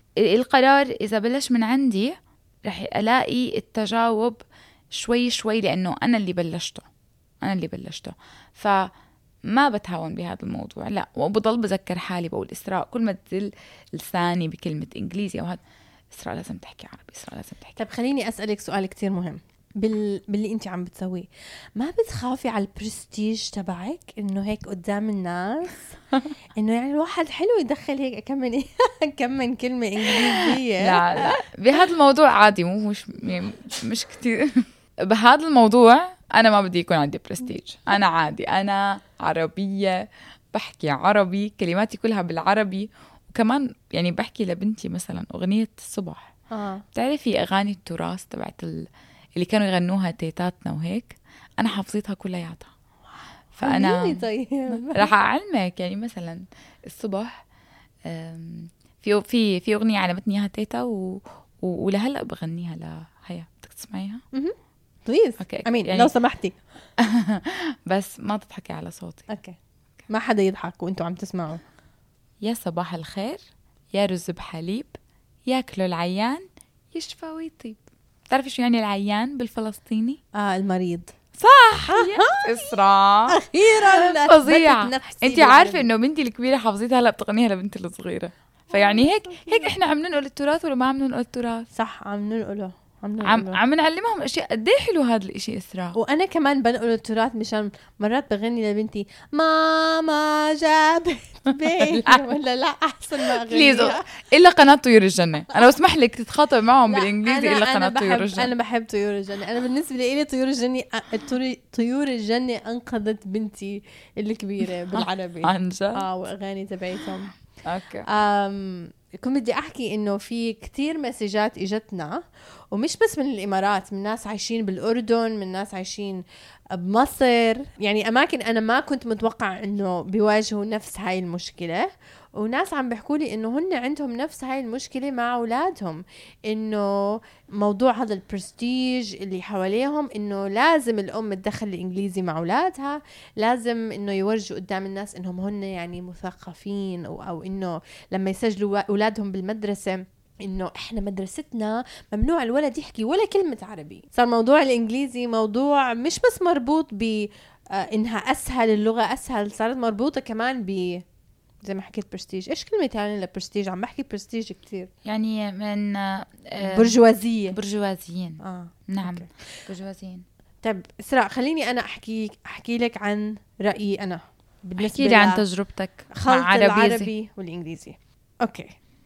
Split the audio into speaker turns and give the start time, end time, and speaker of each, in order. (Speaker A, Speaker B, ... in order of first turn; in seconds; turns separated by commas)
Speaker A: 0.2-6.9, Speaker A: 7.4-8.9, Speaker A: 9.5-15.6, Speaker A: 16.1-17.8, Speaker B: 17.8-26.0, Speaker B: 26.6-31.3, Speaker A: 30.4-46.3, Speaker B: 46.5-46.8, Speaker A: 46.9-52.7, Speaker A: 53.5-54.2, Speaker B: 53.6-55.1, Speaker A: 54.7-57.4, Speaker A: 58.0-64.2, Speaker B: 65.0-66.6, Speaker A: 65.4-66.1, Speaker A: 67.0-69.2, Speaker B: 69.3-69.6, Speaker B: 70.1-71.6, Speaker A: 72.4-73.4, Speaker A: 73.9-75.0, Speaker A: 75.5-80.2, Speaker B: 80.3-81.1, Speaker A: 81.3-91.7, Speaker B: 81.9-82.8, Speaker B: 83.3-85.9, Speaker B: 88.7-89.7, Speaker B: 91.7-93.6, Speaker A: 93.2-96.0, Speaker B: 96.0-104.0, Speaker A: 101.8-102.2, Speaker A: 103.3-108.5, Speaker B: 106.9-117.3, Speaker A: 114.9-116.0, Speaker A: 117.6-118.1, Speaker B: 118.1-122.2, Speaker B: 122.7-131.8, Speaker B: 132.3-161.0, Speaker B: 161.7-164.9, Speaker A: 165.1-166.9, Speaker B: 166.6-167.6, Speaker A: 167.5-170.2, Speaker B: 168.4-169.3, Speaker B: 170.6-175.4, Speaker A: 174.8-177.1, Speaker B: 176.1-178.7